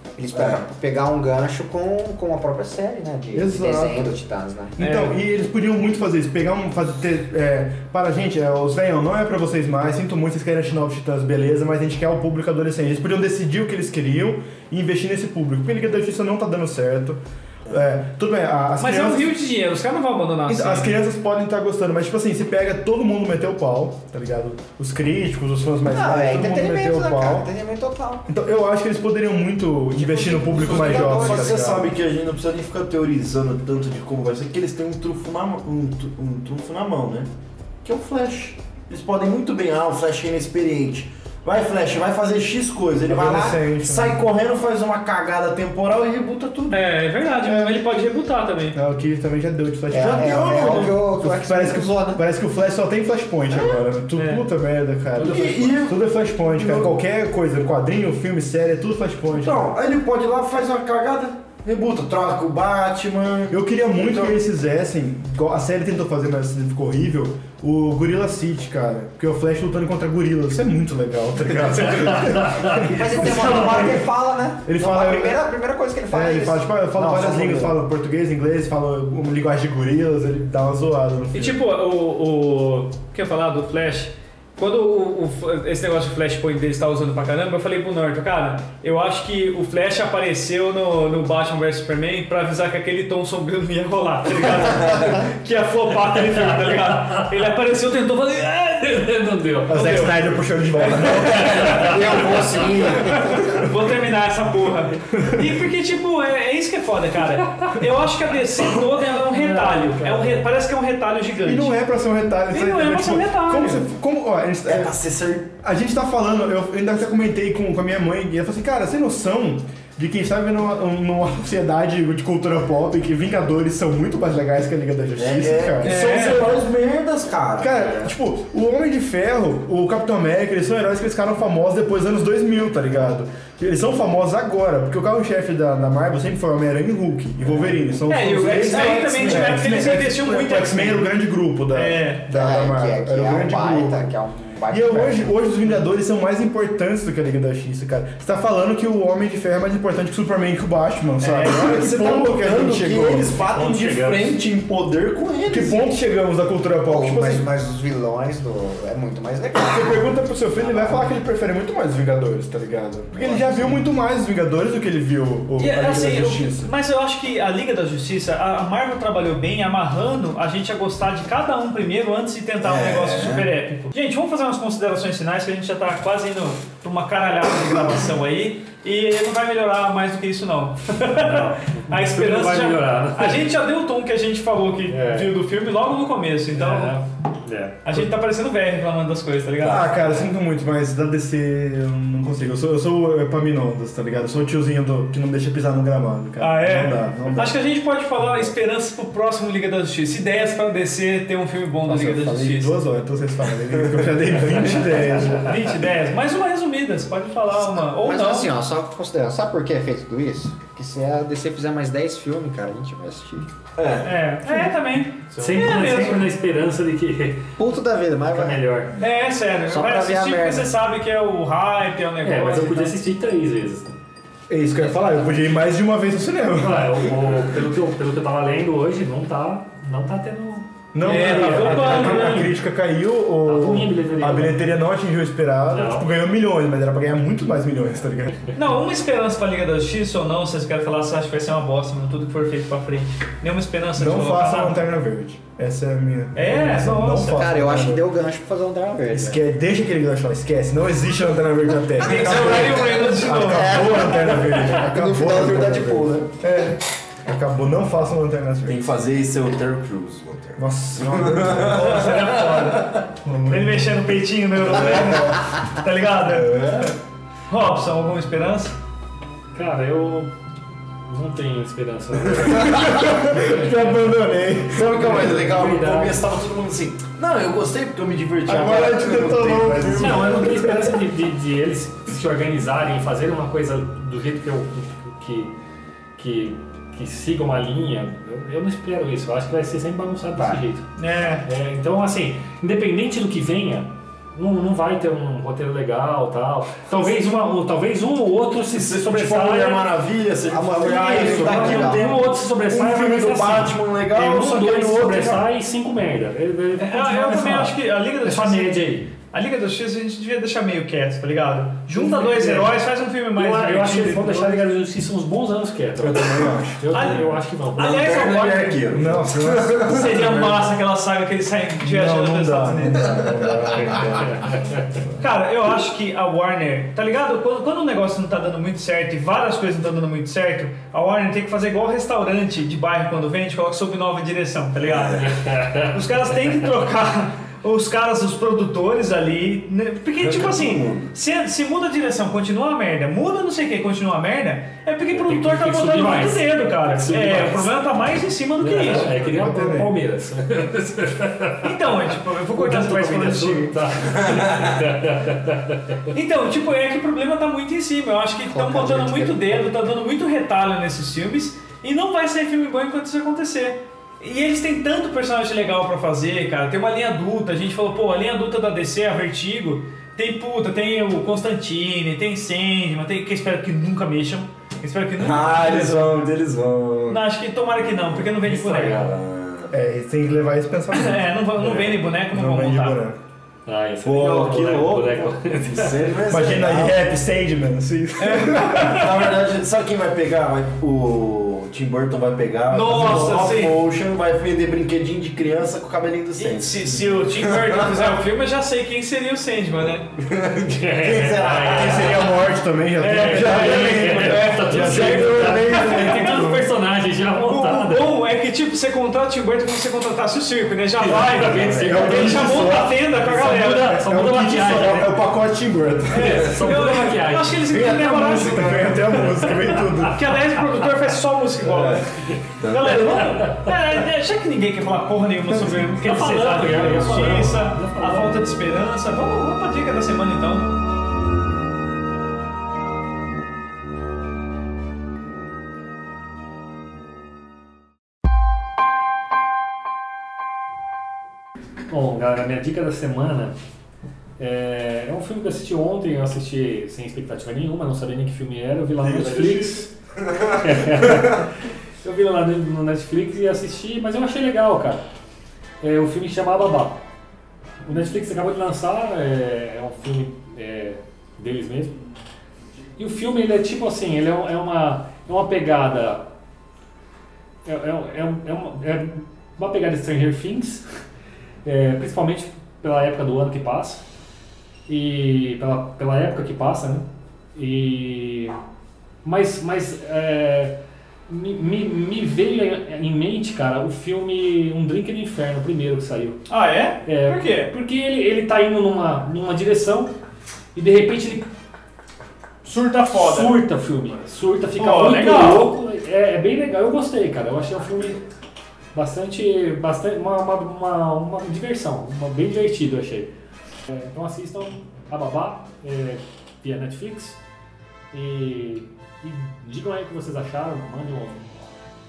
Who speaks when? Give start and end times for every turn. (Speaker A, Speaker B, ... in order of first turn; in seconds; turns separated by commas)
Speaker A: 0.2-4.8, Speaker B: 0.3-0.6, Speaker C: 3.3-4.1, Speaker C: 4.8-19.3, Speaker D: 4.8-5.2, Speaker D: 18.8-21.0, Speaker C: 20.5-27.5, Speaker A: 25.9-28.3, Speaker C: 28.3-31.9, Speaker A: 29.9-31.8, Speaker B: 30.4-37.3, Speaker B: 37.8-46.8, Speaker C: 43.1-44.2, Speaker D: 46.7-48.8, Speaker C: 47.4-47.8, Speaker C: 48.7-59.8, Speaker A: 49.9-52.2, Speaker B: 50.1-50.9, Speaker D: 54.1-54.4, Speaker E: 55.1-55.8, Speaker B: 55.2-56.0, Speaker B: 56.5-57.0, Speaker B: 59.3-64.3, Speaker C: 63.5-74.1, Speaker A: 72.8-77.8, Speaker C: 74.6-75.4, Speaker C: 76.1-81.6, Speaker D: 81.3-102.4, Speaker E: 96.7-97.2, Speaker E: 98.9-99.9, Speaker C: 99.7-102.0, Speaker B: 101.0-101.6, Speaker E: 101.5-101.9, Speaker A: 101.6-103.6, Speaker D: 103.0-111.7, Speaker E: 109.3-110.4, Speaker C: 111.4-114.9, Speaker D: 112.5-113.9, Speaker B: 114.6-115.5, Speaker C: 115.6-126.3, Speaker B: 125.2-128.1, Speaker D: 125.8-126.5, Speaker C: 127.6-144.1, Speaker D: 138.1-141.1, Speaker B: 138.6-139.7, Speaker D: 141.7-142.2, Speaker A: 142.3-145.7, Speaker C: 144.7-153.3, Speaker D: 151.2-151.5, Speaker B: 151.3-156.0, Speaker E: 153.5-154.4, Speaker C: 155.5-157.4, Speaker A: 156.8-161.1, Speaker C: 159.6-166.7, Speaker A: 163.1-163.8, Speaker D: 165.6-186.9, Speaker B: 172.6-173.5, Speaker E: 181.2-183.4, Speaker E: 184.9-185.3, Speaker E: 186.5-188.0, Speaker D: 187.8-190.0, Speaker C: 189.6-197.6, Speaker D: 196.4-202.8, Speaker C: 201.9-205.6, Speaker B: 203.8-204.1, Speaker D: 205.2-208.5, Speaker A: 207.9-213.5, Speaker B: 213.8-214.2, Speaker D: 214.0-216.2, Speaker E: 215.3-217.5, Speaker A: 217.6-218.9, Speaker E: 218.3-218.9, Speaker D: 219.0-223.0, Speaker A: 219.7-220.7, Speaker E: 222.2-224.0, Speaker C: 224.5-227.2, Speaker A: 224.9-225.3, Speaker E: 226.6-232.6, Speaker C: 230.9-238.3, Speaker D: 231.0-232.6, Speaker E: 233.4-234.6, Speaker E: 235.7-236.1, Speaker D: 238.5-244.8, Speaker C: 243.9-248.0, Speaker D: 246.3-247.4, Speaker A: 247.2-249.4, Speaker C: 249.1-258.9, Speaker D: 252.0-254.4, Speaker A: 252.4-256.4, Speaker B: 258.6-263.0, Speaker C: 260.6-262.2, Speaker D: 261.6-262.9, Speaker C: 263.2-263.9, Speaker D: 263.5-266.6, Speaker B: 264.7-265.4, Speaker B: 266.3-266.9, Speaker D: 267.5-268.7, Speaker E: 269.5-270.3, Speaker E: 271.0-273.0, Speaker C: 272.5-275.3, Speaker B: 274.7-280.6, Speaker E: 274.9-276.2, Speaker C: 278.4-280.9, Speaker E: 279.9-285.5, Speaker E: 286.2-290.9, Speaker D: 291.0-291.4, Speaker E: 291.4-299.9, Speaker B: 298.7-305.4, Speaker A: 300.5-302.0, Speaker E: 300.7-309.1, Speaker D: 306.8-308.8, Speaker D: 309.3-314.6, Speaker E: 311.9-312.7, Speaker C: 312.0-312.6, Speaker E: 313.4-318.1, Speaker C: 316.0-317.2, Speaker D: 316.9-318.8, Speaker B: 317.8-320.6, Speaker C: 318.9-320.0, Speaker D: 319.9-323.7, Speaker C: 321.8-325.2, Speaker B: 323.0-323.9, Speaker E: 323.8-325.0, Speaker D: 325.2-349.2, Speaker B: 334.8-335.3, Speaker E: 335.2-336.6, Speaker B: 340.2-341.1, Speaker E: 345.1-347.7, Speaker E: 348.6-352.0, Speaker C: 348.8-349.9, Speaker D: 351.6-353.8, Speaker E: 352.5-356.0, Speaker B: 354.2-354.8, Speaker D: 356.1-376.3, Speaker A: 358.5-359.4, Speaker B: 375.2-377.2, Speaker D: 377.1-379.1, Speaker E: 378.4-379.1, Speaker B: 378.7-379.7, Speaker C: 379.7-381.2, Speaker D: 380.9-383.0, Speaker C: 382.3-383.2, Speaker E: 383.6-386.1, Speaker B: 384.0-387.2, Speaker C: 386.3-388.9, Speaker D: 388.2-389.2, Speaker B: 388.8-398.1, Speaker D: 392.7-393.8, Speaker D: 396.4-400.1, Speaker B: 400.2-402.4, Speaker E: 400.6-402.4, Speaker C: 401.7-405.8, Speaker D: 403.0-406.6, Speaker E: 403.0-408.1, Speaker B: 403.3-406.6, Speaker D: 407.4-413.9, Speaker E: 411.0-412.6, Speaker C: 411.4-416.5, Speaker E: 413.3-415.2, Speaker D: 416.1-418.9, Speaker E: 416.1-417.9, Speaker B: 417.7-419.5, Speaker C: 418.0-420.2, Speaker D: 420.1-422.1, Speaker B: 421.6-423.3, Speaker E: 422.2-423.7, Speaker D: 422.7-430.7, Speaker E: 425.6-428.7, Speaker E: 441.9-443.5, Speaker E: 444.4-449.9, Speaker C: 449.0-449.9, Speaker B: 450.3-450.6, Speaker E: 450.5-451.5, Speaker E: 452.0-455.0, Speaker E: 455.8-457.0, Speaker E: 457.8-462.0, Speaker E: 463.0-466.3, Speaker E: 467.6-470.9, Speaker E: 471.6-474.0, Speaker E: 474.9-478.6, Speaker E: 479.2-480.8, Speaker E: 481.3-486.4, Speaker D: 486.5-487.7, Speaker E: 487.0-490.1, Speaker E: 490.7-491.5, Speaker D: 492.6-493.6, Speaker E: 493.1-498.2, Speaker D: 494.8-495.7, Speaker E: 498.9-503.3, Speaker E: 503.9-507.4, Speaker E: 508.1-511.7